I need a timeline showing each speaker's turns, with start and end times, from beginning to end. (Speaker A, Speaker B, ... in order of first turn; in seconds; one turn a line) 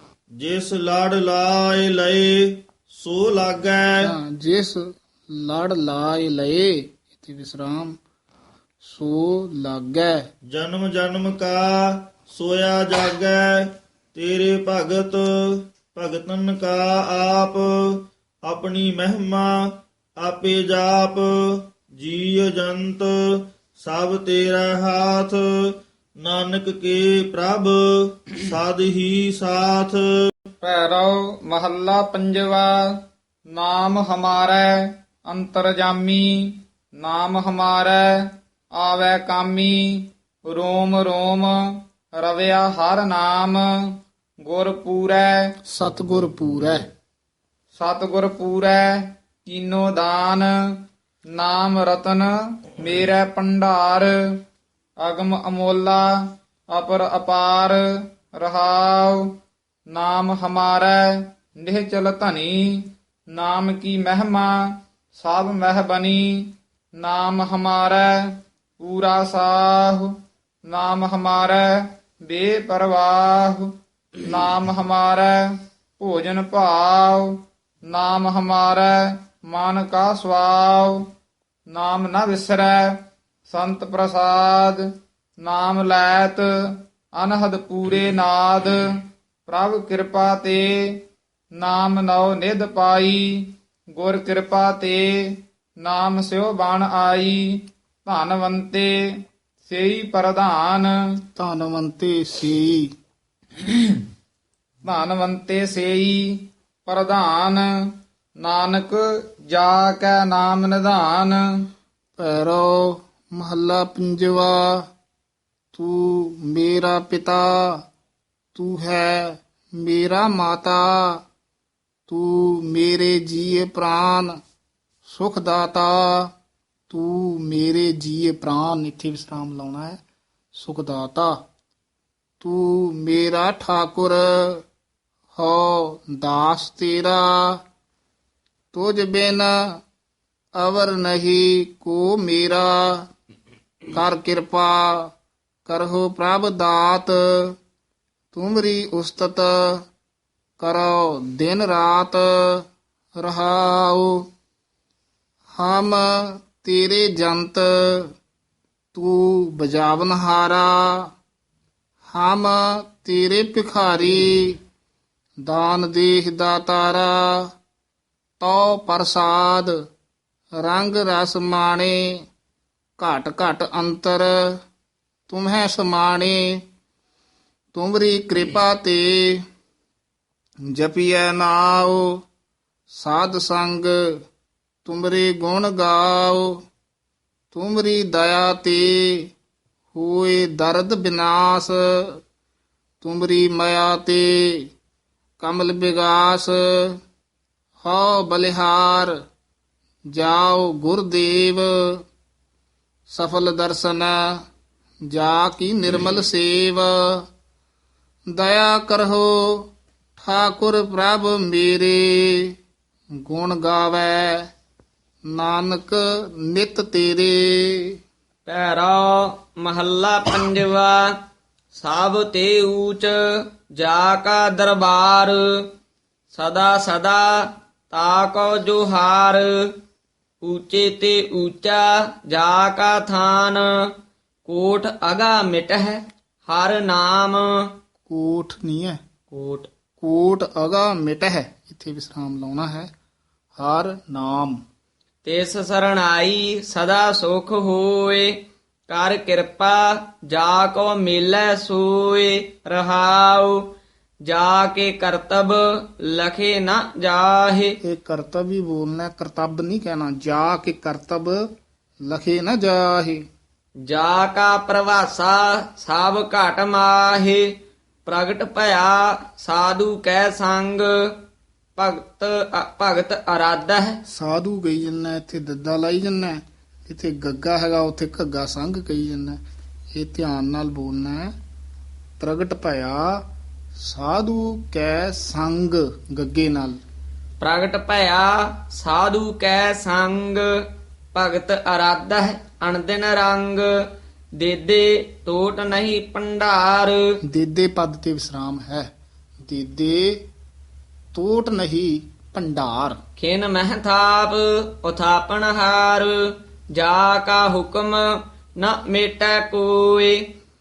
Speaker A: 0.4-4.1
Speaker B: 4.0-8.0
Speaker B: 8.8-10.3
Speaker A: 10.5-19.6
Speaker A: 20.2-25.4
Speaker A: 26.2-30.0
Speaker C: 30.6-32.8
Speaker C: 33.5-38.2
Speaker C: 38.8-45.5
Speaker B: 45.7-46.9
Speaker C: 47.7-50.5
Speaker C: 51.4-54.1
Speaker C: 55.0-56.1
Speaker C: 56.7-57.8
Speaker C: 58.4-59.2
Speaker C: 59.9-64.6
Speaker C: 65.2-68.2
Speaker C: 68.8-70.1
Speaker C: 70.7-75.5
Speaker C: 76.0-81.1
Speaker C: 81.7-83.0
Speaker C: 83.5-84.8
Speaker C: 85.4-91.0
Speaker C: 91.5-99.0
Speaker C: 99.7-100.9
Speaker B: 101.4-102.9
Speaker C: 104.8-107.7
Speaker C: 108.4-111.4
Speaker B: 112.2-114.9
Speaker B: 115.7-117.8
Speaker B: 118.5-121.2
Speaker B: 122.1-124.4
Speaker B: 125.0-126.3
Speaker B: 126.9-130.0
Speaker B: 130.5-131.4
Speaker B: 132.4-134.6
Speaker B: 135.3-137.6
Speaker B: 138.7-139.8
Speaker B: 140.6-143.1
Speaker B: 143.9-145.1
Speaker B: 145.7-147.6
Speaker B: 148.3-149.8
Speaker B: 150.6-152.7
Speaker B: 153.2-154.3
Speaker B: 155.5-158.1
Speaker B: 158.9-161.1
Speaker B: 162.1-164.6
Speaker B: 165.4-167.5
Speaker B: 168.4-169.8
Speaker B: 170.6-172.2
Speaker B: 173.0-174.6
Speaker B: 175.3-176.6
Speaker B: 177.7-179.4
Speaker B: 180.7-182.2
Speaker B: 182.9-183.9
Speaker B: 184.8-186.6
Speaker B: 187.5-189.3
Speaker B: 189.9-192.2
Speaker B: 193.0-194.7
Speaker B: 195.4-197.0
Speaker B: 197.8-199.1
Speaker B: 200.1-202.0
Speaker B: 203.1-204.4
Speaker B: 205.1-207.3
Speaker B: 208.3-212.6
Speaker B: 213.2-214.5
Speaker B: 215.3-218.0
Speaker D: 218.4-221.1
Speaker D: 221.8-225.4
Speaker D: 226.3-229.7
Speaker D: 230.4-233.9
Speaker D: 234.4-237.7
Speaker B: 238.1-239.0
Speaker D: 239.3-239.7
Speaker B: 240.0-242.9
Speaker B: 243.6-244.6
Speaker D: 245.2-248.3
Speaker D: 248.9-253.6
Speaker D: 254.3-257.8
Speaker B: 257.8-261.4
Speaker B: 262.1-263.2
Speaker D: 263.9-267.5
Speaker D: 268.1-271.1
Speaker D: 271.8-274.0
Speaker B: 274.1-279.4
Speaker B: 279.9-281.4
Speaker B: 282.2-283.2
Speaker B: 283.8-286.8
Speaker D: 287.4-290.5
Speaker D: 291.1-293.7
Speaker D: 294.4-297.0
Speaker B: 297.3-298.9
Speaker B: 299.4-300.2
Speaker B: 301.1-303.0
Speaker D: 303.2-310.2